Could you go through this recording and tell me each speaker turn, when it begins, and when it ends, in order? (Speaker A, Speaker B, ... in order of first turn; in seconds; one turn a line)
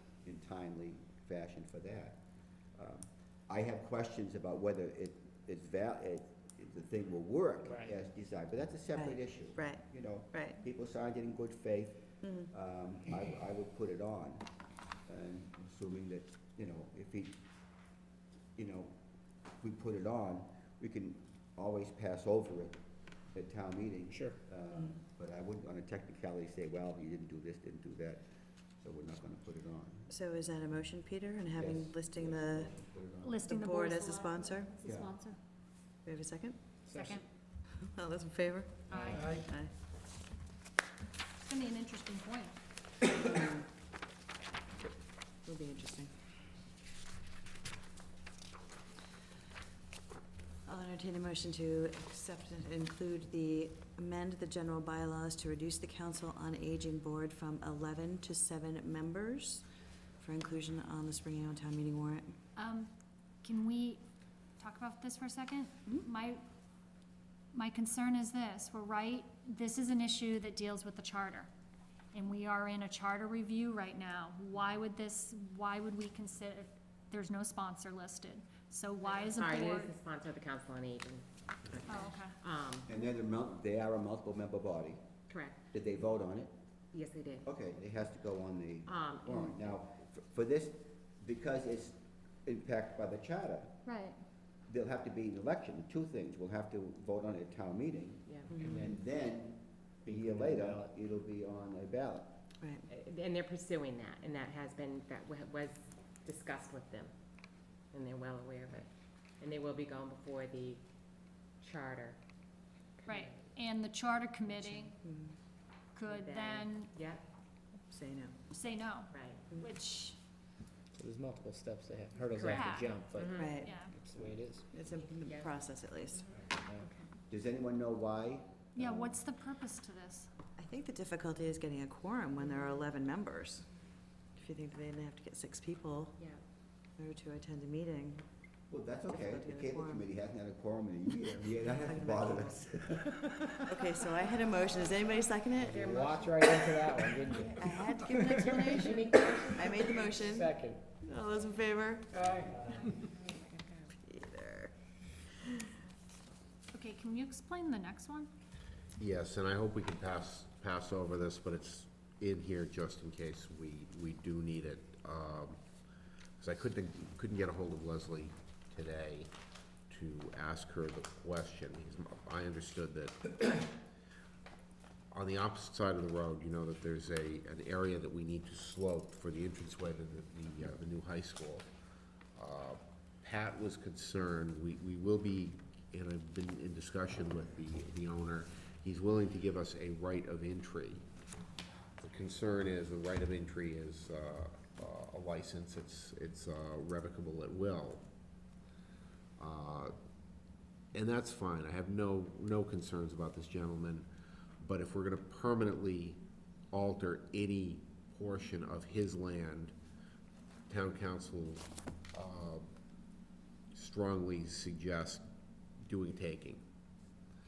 Speaker A: 0.2-2.2
Speaker A: 2.8-14.4
Speaker B: 9.0-10.6
Speaker B: 12.2-12.5
Speaker A: 15.1-17.4
Speaker A: 18.6-18.9
Speaker A: 19.6-22.8
Speaker A: 23.3-28.2
Speaker C: 24.1-24.4
Speaker A: 28.8-30.1
Speaker B: 30.1-32.7
Speaker A: 31.6-33.4
Speaker D: 33.2-35.0
Speaker B: 33.4-34.7
Speaker A: 34.8-35.2
Speaker B: 36.0-36.6
Speaker C: 36.9-37.2
Speaker D: 37.0-37.2
Speaker B: 37.8-39.7
Speaker D: 38.9-39.3
Speaker C: 39.0-39.5
Speaker D: 41.4-42.6
Speaker B: 43.2-43.7
Speaker B: 45.5-46.1
Speaker B: 50.6-59.6
Speaker B: 60.2-62.4
Speaker D: 62.5-62.9
Speaker D: 63.4-64.0
Speaker D: 64.6-66.4
Speaker D: 67.5-71.5
Speaker D: 72.1-79.9
Speaker E: 79.0-82.9
Speaker D: 81.9-82.4
Speaker A: 82.9-85.1
Speaker E: 85.3-85.6
Speaker A: 85.7-86.5
Speaker E: 86.9-87.5
Speaker A: 87.4-93.8
Speaker E: 88.8-89.8
Speaker D: 93.8-94.1
Speaker A: 94.7-102.4
Speaker C: 98.5-99.0
Speaker C: 100.1-100.9
Speaker E: 102.9-107.1
Speaker E: 107.9-110.8
Speaker E: 111.6-112.2
Speaker E: 113.0-113.4
Speaker D: 113.0-115.0
Speaker B: 115.0-115.3
Speaker D: 115.9-116.9
Speaker E: 116.0-117.2
Speaker B: 117.9-118.4
Speaker D: 118.5-120.2
Speaker E: 119.1-119.5
Speaker C: 120.9-124.7
Speaker E: 122.3-123.6
Speaker D: 122.5-123.0
Speaker B: 123.3-123.8
Speaker D: 123.6-124.0
Speaker B: 124.7-126.3
Speaker E: 125.1-125.5
Speaker E: 126.1-127.1
Speaker C: 126.3-126.9
Speaker A: 127.3-129.1
Speaker D: 128.8-130.3
Speaker B: 130.6-133.7
Speaker B: 134.4-136.2
Speaker B: 137.0-138.2
Speaker A: 138.7-143.2
Speaker B: 139.1-140.0
Speaker B: 141.8-142.6
Speaker B: 143.6-145.8
Speaker C: 145.6-150.8
Speaker E: 145.7-147.7
Speaker B: 147.5-152.4
Speaker E: 148.4-150.1
Speaker C: 152.1-152.9
Speaker E: 152.4-153.9
Speaker B: 154.1-154.7
Speaker D: 156.7-158.3
Speaker F: 159.0-165.6
Speaker F: 166.4-169.3
Speaker F: 169.9-173.8
Speaker F: 175.1-181.7
Speaker F: 182.4-191.0
Speaker F: 192.0-198.0
Speaker F: 199.4-199.9
Speaker F: 200.9-204.1
Speaker F: 204.6-209.7
Speaker F: 210.7-212.7
Speaker F: 213.8-215.2
Speaker F: 215.8-216.6